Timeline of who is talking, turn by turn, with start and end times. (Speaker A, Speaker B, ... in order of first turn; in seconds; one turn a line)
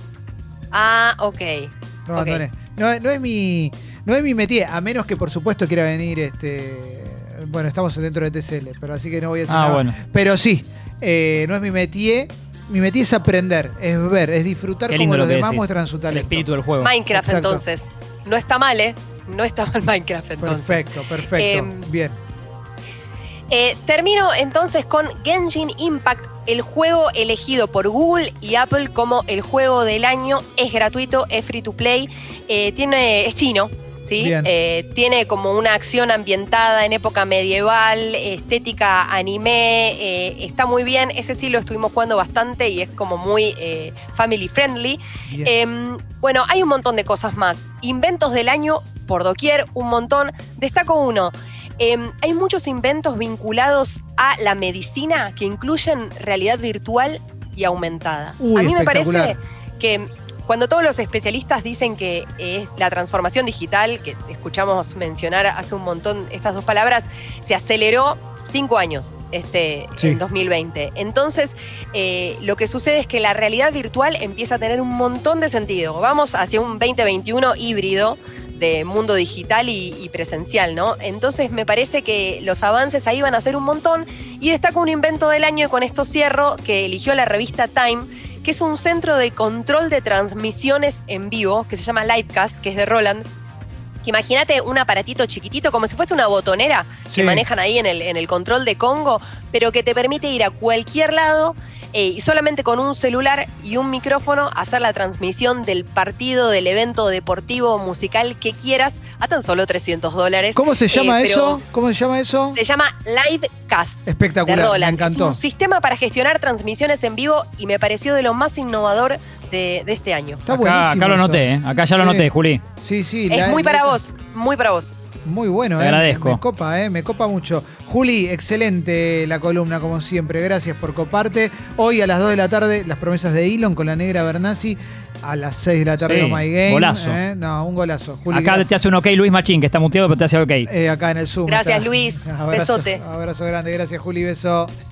Speaker A: 0.7-2.4
Speaker B: 2.0-16.5
Speaker C: 9.5-10.0
Speaker C: 14.9-16.9
Speaker A: 16.8-21.9
Speaker B: 17.1-17.6
Speaker B: 20.4-22.2
Speaker A: 23.5-93.2
Speaker B: 34.2-34.5
Speaker B: 58.4-59.4
Speaker A: 94.0-111.6
Speaker B: 97.1-97.5
Speaker B: 110.5-112.6
Speaker A: 112.4-120.4
Speaker B: 114.0-115.4
Speaker B: 120.5-124.0
Speaker C: 120.5-122.6
Speaker A: 123.3-124.9
Speaker B: 125.2-138.7
Speaker C: 125.8-126.4
Speaker C: 136.0-137.2
Speaker C: 138.3-140.7
Speaker B: 140.7-144.7
Speaker A: 141.4-143.0